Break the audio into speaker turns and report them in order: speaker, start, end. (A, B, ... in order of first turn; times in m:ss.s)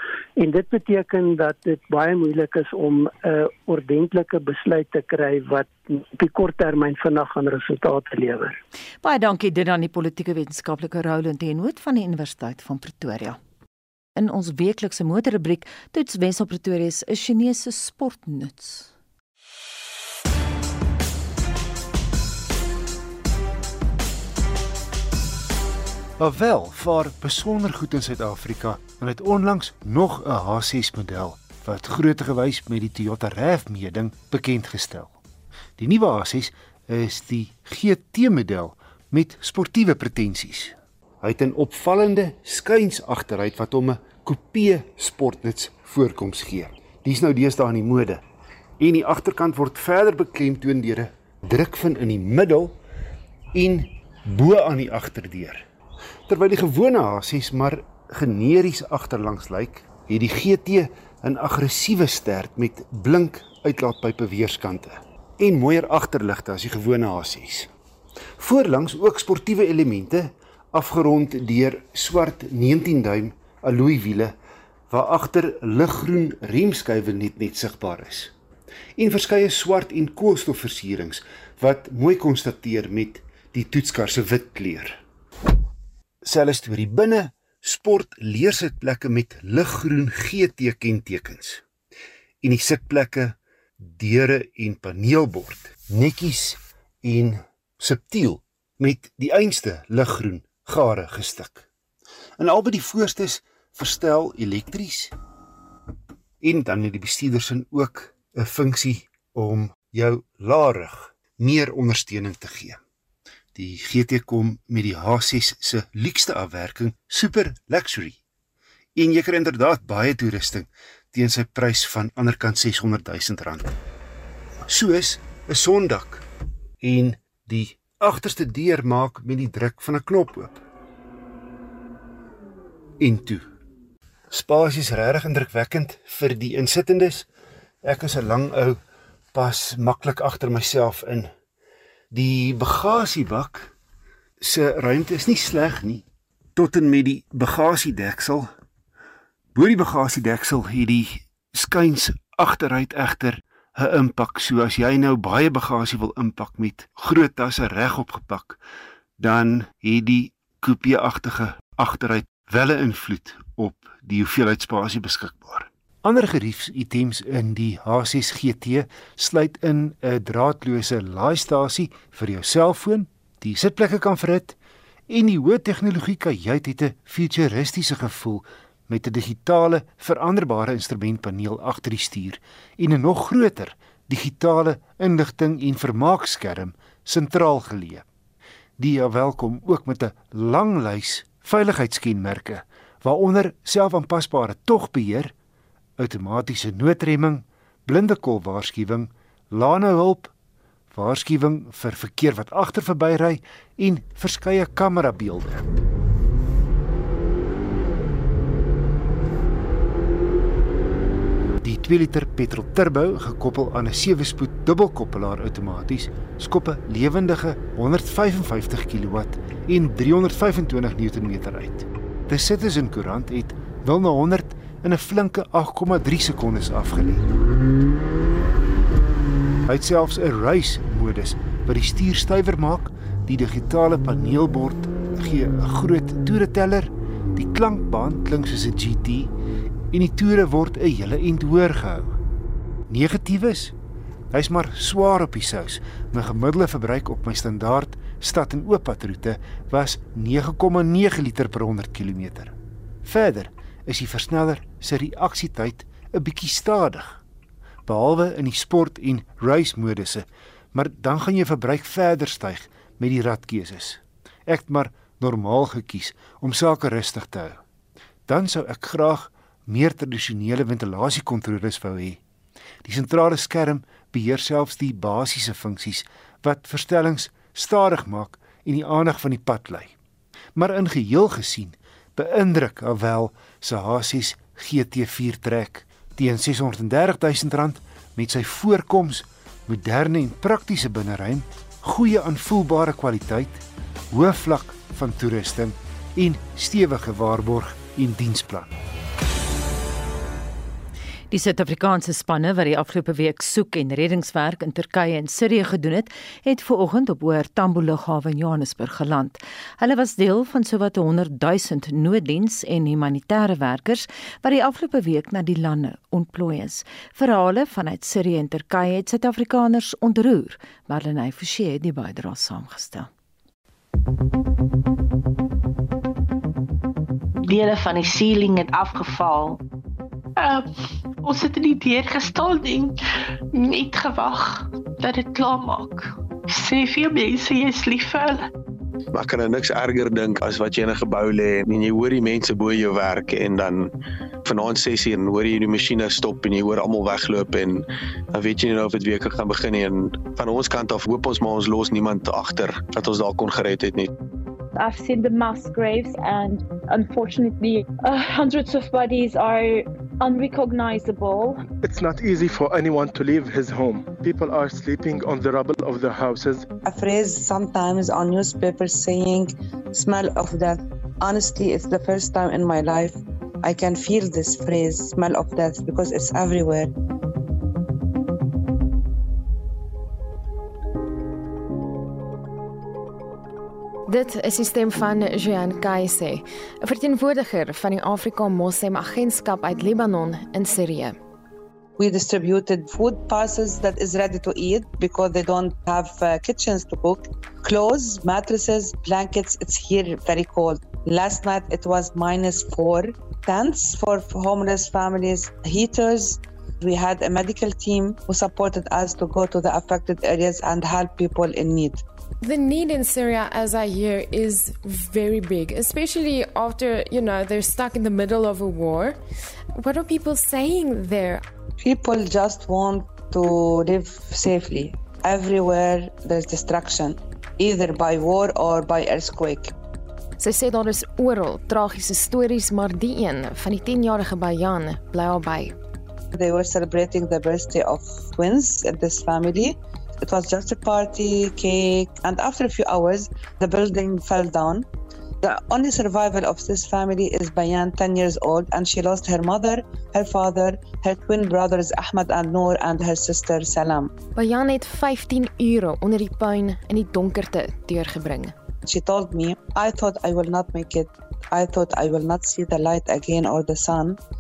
0:00.4-0:08.6 A
0:09.0-0:13.4 B
0:14.2-0:18.9 B
0:26.2-0:35.1 C
0:35.8-0:48.2 C
0:48.8-0:52.8 C
0:53.5-0:55.6 C
0:56.3-1:07.7 C
1:08.4-1:14.3 C
1:14.9-1:18.3 C
1:19.0-1:25.0 C
1:26.2-1:31.6 C
1:32.4-1:41.6 C
1:42.4-1:45.1 C
1:46.4-1:52.8 C
1:53.5-1:58.2 C
1:59.0-2:03.7 C
2:04.7-2:06.2 C
2:06.8-2:10.6 C
2:13.0-2:13.4 C
2:14.3-2:17.3 C
2:17.8-2:18.8 C
2:19.3-2:21.3 C
2:22.1-2:23.7 C
2:24.4-2:26.0 C
2:26.6-2:28.5 C
2:29.6-2:38.6 C
2:39.2-2:54.6 C
2:55.1-3:08.0 C
3:08.8-3:15.3 C
3:16.0-3:20.3 C
3:20.9-3:25.7 C
3:31.6-3:47.2 C
3:49.7-3:59.3 C
3:59.9-4:02.2 C
4:02.9-4:03.7 C
4:04.3-4:12.5 C
4:13.0-4:17.2 C
4:17.8-4:27.6 C
4:28.3-4:32.2 C
4:32.8-4:39.9 C
4:40.6-4:58.7 C
5:01.3-5:23.1 B
5:27.4-5:29.6 D
5:30.4-5:30.6 D
5:31.2-5:33.0 D
5:33.5-5:38.5 D
5:39.2-5:43.9 E
5:44.4-5:47.8 E
5:48.3-5:54.1 E
5:54.8-6:01.6 F
6:01.7-6:06.6 G
6:06.8-6:16.9 H
6:24.1-6:31.2 I
6:32.0-6:52.0 H
6:52.4-6:59.2 I
6:59.8-7:01.4 I
7:01.8-7:09.7 H
7:10.4-7:15.7 I
7:16.3-7:24.9 H
7:25.4-7:34.1 H
7:34.3-7:38.5 I
7:38.8-7:44.2 H